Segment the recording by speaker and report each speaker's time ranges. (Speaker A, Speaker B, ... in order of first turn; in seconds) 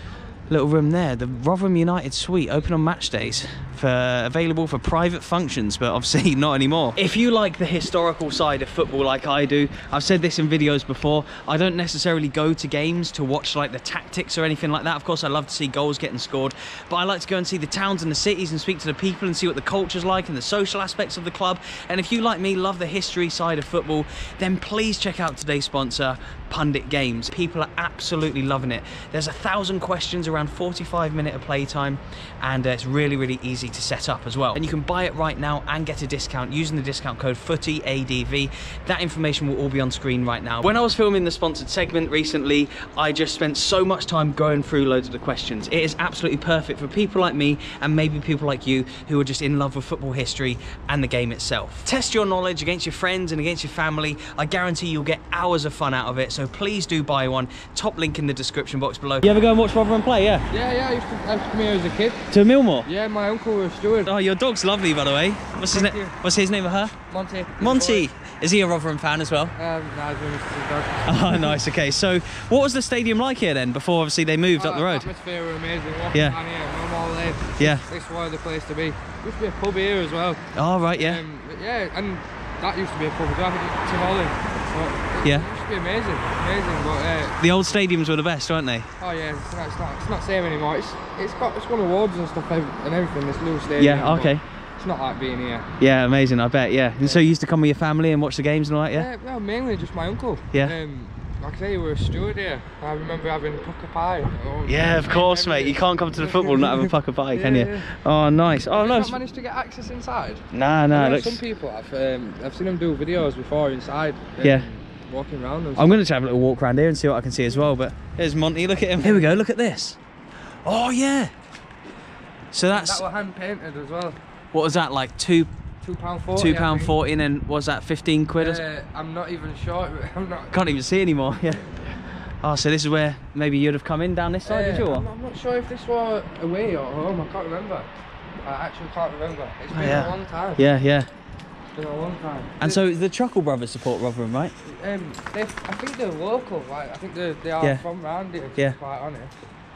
Speaker A: 0.5-60.5, 62.3-62.9, 64.0-66.9, 67.6-69.5, 71.0-75.1, 76.1-76.4, 77.6-77.9, 80.5-81.2, 87.4-88.9, 93.8-94.4, 95.8-99.1, 104.7-109.2, 110.5-111.4, 114.4-114.7, 115.8-120.0, 120.6-121.3, 122.5-123.0, 124.5-125.5, 126.3-128.6, 130.5-135.1, 139.7-141.1, 142.6-144.5
Speaker B: 60.5-62.3, 62.8-64.1, 65.7-66.2, 67.1-68.1, 69.5-71.6, 74.5-87.4, 89.0-95.7, 97.0-97.2, 98.9-107.9, 108.7-116.0, 119.0-119.4, 122.7-124.2, 125.8-126.9, 128.4-130.6, 134.4-137.9, 138.4-140.7, 141.7-142.8, 144.6-149.4